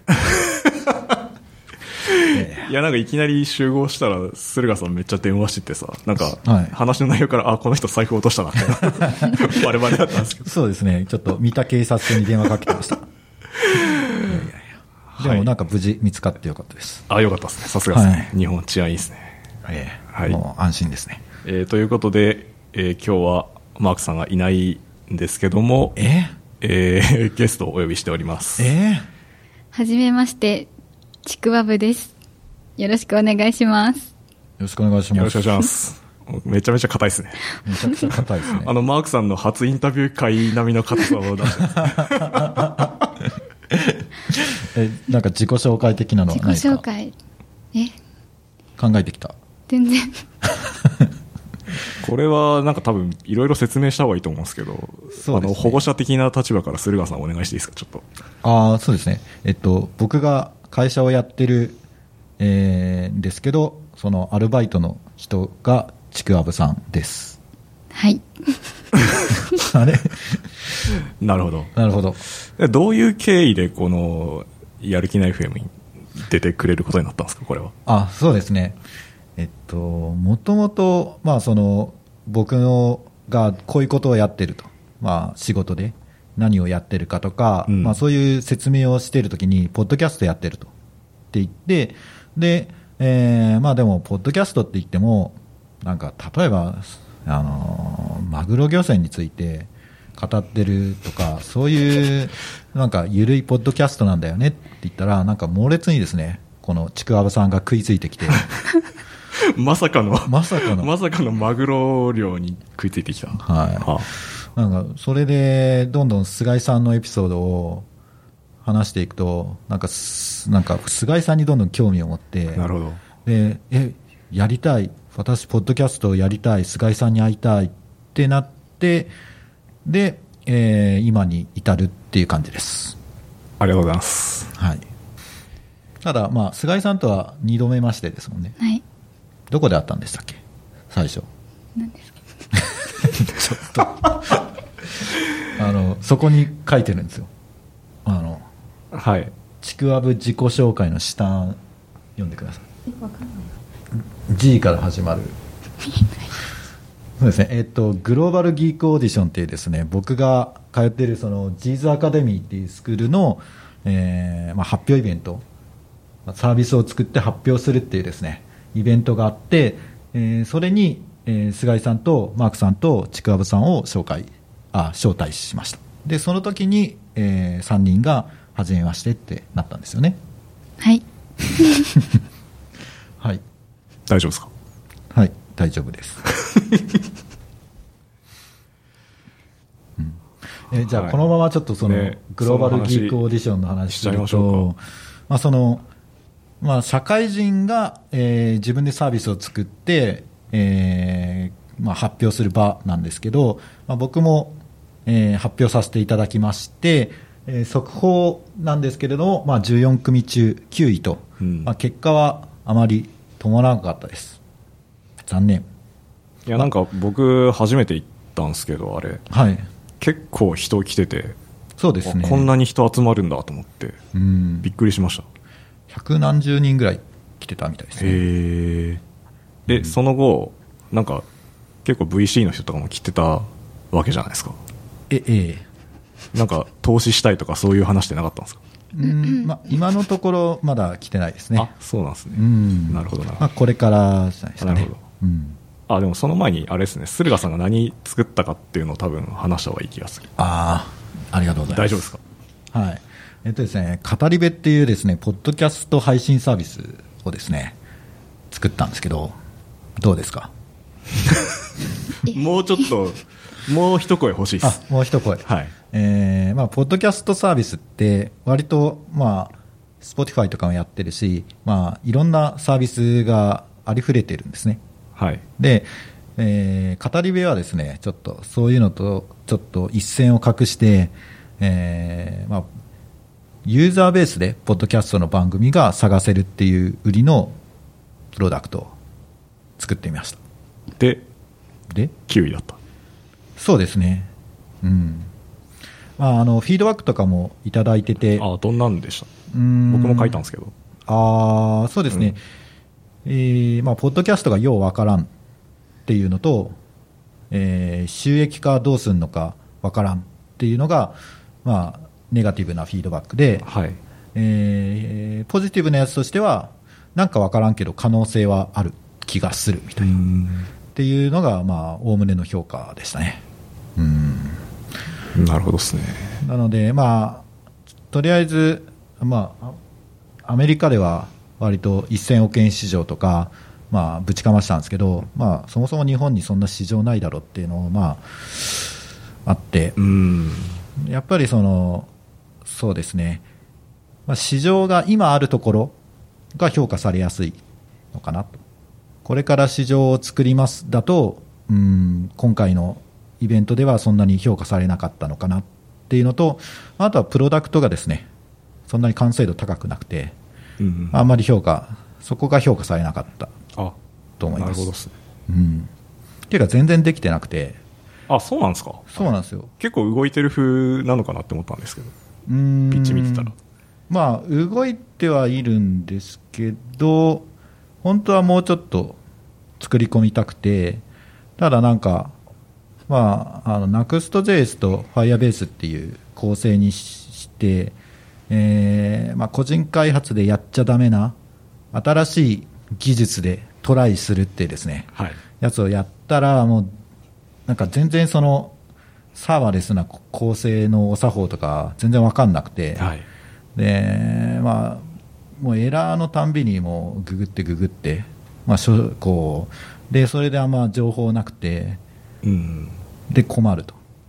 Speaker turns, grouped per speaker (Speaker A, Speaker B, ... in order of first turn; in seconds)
Speaker A: 0.2-0.9, 2.1-10.5, 13.6-14.4, 15.1-15.5, 17.1-19.4, 20.1-20.4, 21.4-26.0, 26.6-28.7, 35.1-37.4, 38.0-42.8, 52.0-58.0, 71.2-71.7, 72.5-77.7, 87.7-88.0, 109.4-114.1, 122.5-123.0, 133.6-134.5, 148.9-149.3, 184.1-184.5, 186.4-186.8, 190.9-191.2, 191.8-193.2, 193.9-194.7, 211.4-211.7, 216.5-219.2, 220.0-221.4, 222.0-224.0, 224.6-225.3, 228.0-229.0, 229.7-231.2, 231.8-234.6, 236.3-238.6, 241.6-243.5, 244.6-245.0, 245.9-250.3, 251.7-252.2, 262.3-264.8, 265.4-265.7, 275.2-275.4, 291.0-291.2, 292.3-292.8, 298.4-299.3, 299.9-300.7, 313.7-314.0, 320.0-320.7, 325.4-326.4, 340.0-340.8, 360.8-361.2, 364.6-365.1, 368.3-372.1, 372.9-373.6, 403.0-403.3, 412.4-413.0
Speaker B: 2.3-2.7, 6.4-6.8, 8.8-9.5, 10.4-13.0, 14.2-17.0, 17.9-18.3, 19.6-21.2, 26.0-26.3, 28.6-29.1, 34.6-35.6, 37.7-38.7, 41.8-43.1, 43.7-46.9, 48.8-49.4, 50.6-51.1, 55.2-55.9, 58.4-61.8, 62.4-67.4, 69.5-70.4, 71.8-72.2, 77.9-78.8, 79.4-90.7, 91.3-108.5, 110.2-110.9, 113.4-113.9, 114.5-117.9, 118.6-122.7, 123.2-129.1, 129.8-133.0, 134.6-134.8, 136.0-138.6, 139.5-140.4, 140.9-141.3, 143.0-144.4, 145.5-147.3, 148.1-148.4, 149.6-151.6, 152.2-152.7, 154.3-155.4, 157.2-165.4, 166.3-180.2, 185.1-186.2, 190.0-195.9, 196.6-214.4, 215.3-215.7, 219.3-219.7, 221.8-222.5, 224.1-224.7, 225.9-228.2, 235.1-235.7, 238.9-241.7, 242.3-245.6, 250.4-252.0, 252.7-257.8, 258.5-259.4, 260.0-260.5, 264.6-274.8, 275.6-282.7, 283.6-287.6, 288.3-288.9, 289.8-290.4, 293.6-294.3, 294.8-295.3, 296.2-298.5, 299.5-300.4, 301.1-302.4, 303.2-305.3, 306.1-306.8, 307.5-313.7, 314.4-320.2, 320.9-323.4, 324.0-324.6, 326.4-327.5, 328.1-329.8, 330.4-340.0, 341.0-342.1, 342.6-343.4, 344.3-346.0, 346.6-347.6, 348.1-348.6, 349.2-358.3, 358.9-360.4, 361.1-363.5, 364.4-364.9, 365.5-365.9, 366.5-367.8, 369.1-369.7, 372.5-373.5, 374.1-377.5, 378.0-379.2, 379.8-381.0, 381.6-382.4, 383.1-388.0, 388.5-391.4, 391.9-396.9, 397.7-398.7, 399.4-403.1, 403.8-405.1, 405.6-412.0, 413.3-414.0
Speaker C: 29.7-30.7, 31.2-32.1, 32.8-34.1, 46.3-47.1, 49.7-50.2, 67.9-68.2, 141.8-142.2, 153.0-153.3, 181.6-181.9